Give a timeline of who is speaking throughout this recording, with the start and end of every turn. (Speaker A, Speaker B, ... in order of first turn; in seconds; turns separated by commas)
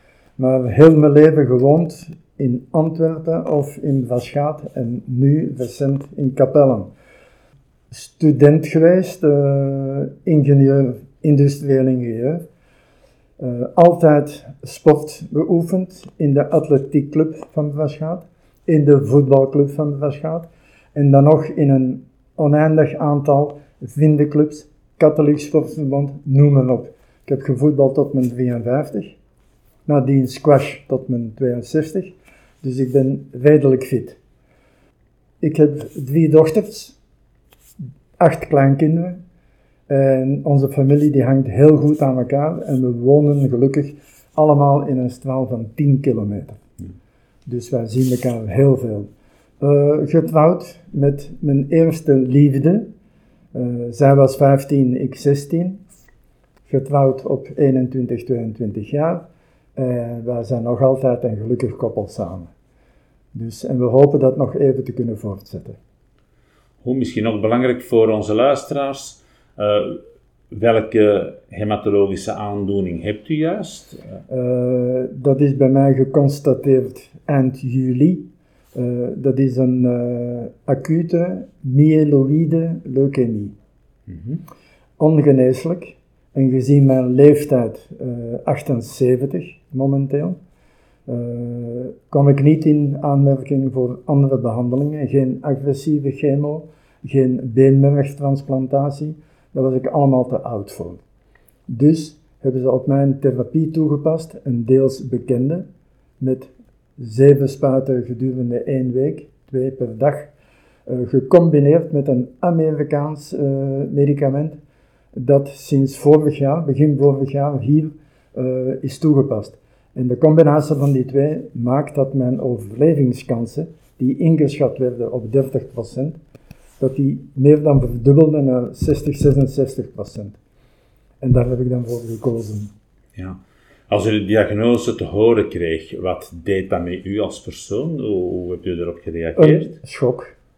Speaker A: 0.4-6.9, Speaker A: 7.9-12.4, Speaker A: 13.4-29.2, Speaker A: 29.9-34.2, Speaker A: 35.4-37.0, Speaker A: 38.2-39.2, Speaker A: 39.9-46.6, Speaker A: 47.5-49.1, Speaker A: 49.6-52.9, Speaker A: 53.5-55.8, Speaker A: 56.6-59.2, Speaker A: 59.8-62.5, Speaker A: 63.3-65.8, Speaker B: 66.8-74.2, Speaker A: 74.3-83.5, Speaker B: 84.1-84.4, Speaker A: 85.0-90.4, Speaker A: 91.1-101.0, Speaker A: 101.7-105.7, Speaker A: 106.2-110.3, Speaker A: 110.9-114.6, Speaker A: 115.1-126.2, Speaker A: 126.8-130.4, Speaker A: 131.2-132.7, Speaker B: 133.1-139.8, Speaker A: 139.3-140.3